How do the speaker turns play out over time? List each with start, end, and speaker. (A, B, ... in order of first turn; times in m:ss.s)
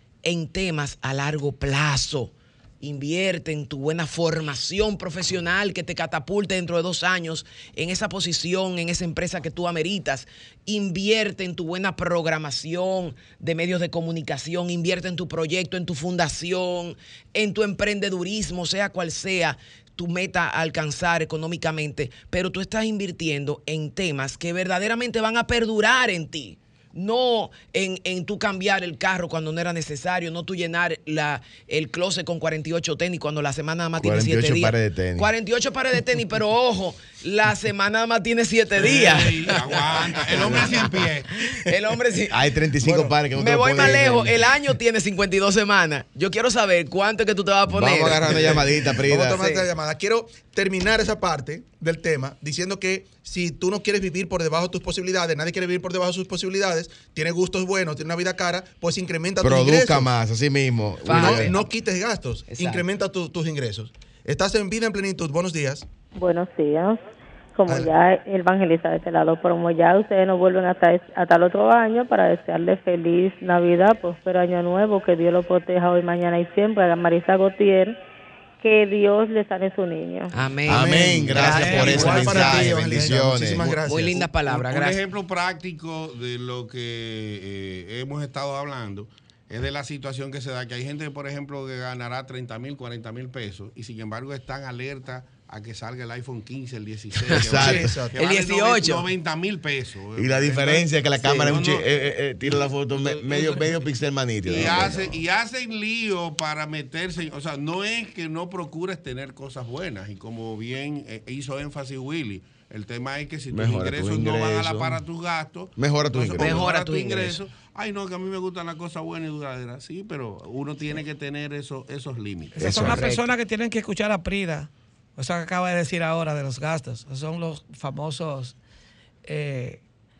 0:00.2-0:40.9 A
0:34.0-0:35.3 B
0:38.8-0:41.3 C
0:41.5-0:42.4 A
0:42.3-0:44.6 B
0:42.8-0:43.1 D
0:43.3-0:48.6 A
0:47.7-0:49.4 B
0:48.3-1:00.1 D
0:49.2-0:49.6 A
0:59.4-1:01.6 B
1:01.0-1:01.6 A
1:01.1-1:05.8 D
1:02.5-1:02.8 A
1:06.1-1:07.0 E
1:07.6-1:17.9 E
1:18.6-1:20.3 E
1:20.3-1:22.7 A
1:20.6-1:23.8 B
1:20.7-1:24.2 D
1:21.8-1:22.5 F
1:23.8-1:25.0 A
1:24.4-1:41.9 C
1:37.3-1:37.6 A
1:37.3-1:38.0 B
1:37.5-1:38.1 D
1:38.1-1:39.0 A
1:40.2-1:45.2 B
1:41.2-1:41.5 A
1:42.9-1:43.7 C
1:44.5-2:02.9 C
1:44.5-1:44.8 A
1:53.5-1:55.0 B
1:55.8-1:56.7 B
1:56.3-1:57.4 A
2:02.5-2:08.6 F
2:02.6-2:03.0 B
2:02.6-2:03.3 A
2:09.2-2:09.8 F